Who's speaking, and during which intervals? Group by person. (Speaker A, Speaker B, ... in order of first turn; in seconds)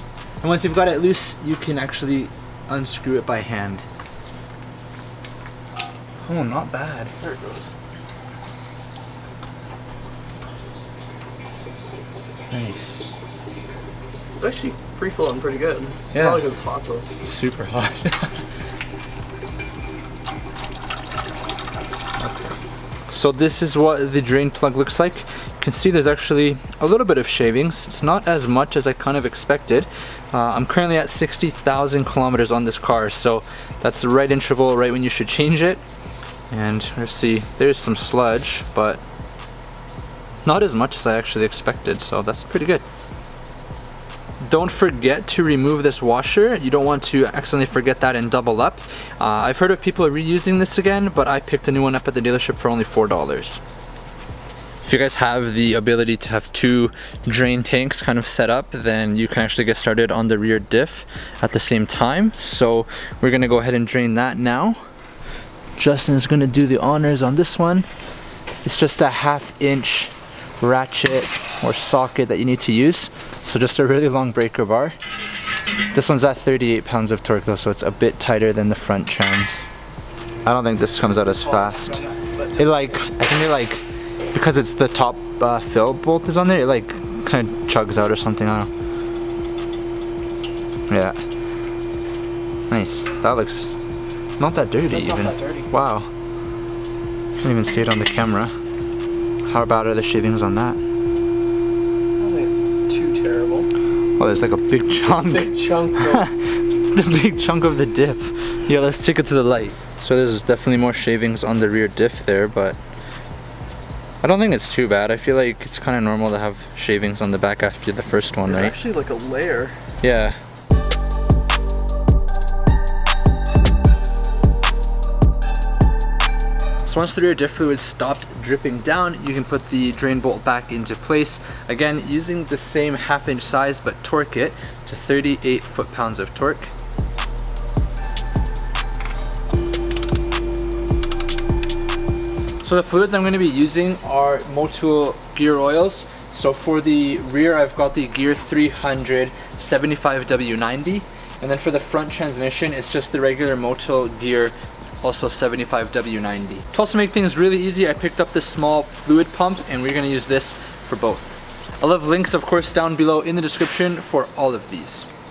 Speaker A: 0.4-3.8, 6.2-7.1, 12.5-13.1, 16.1-16.5, 17.2-18.4, 22.2-22.6, 23.1-35.8, 36.5-39.0, 40.5-42.8, 44.4-53.6, 54.8-64.8, 65.8-67.9, 68.6-75.0, 75.9-79.7, 80.4-82.0, 82.6-88.7, 90.9-91.2, 92.7-93.7, 94.4-96.1, 97.4-98.5, 99.4-100.8, 104.2-112.8, 114.2-118.8, 120.0-120.4, 126.8-136.7, 142.6-165.1
Speaker B: 7.2-7.7, 14.3-17.2, 81.2-83.0, 94.9-95.7, 102.2-103.7, 105.1-106.2, 118.4-119.8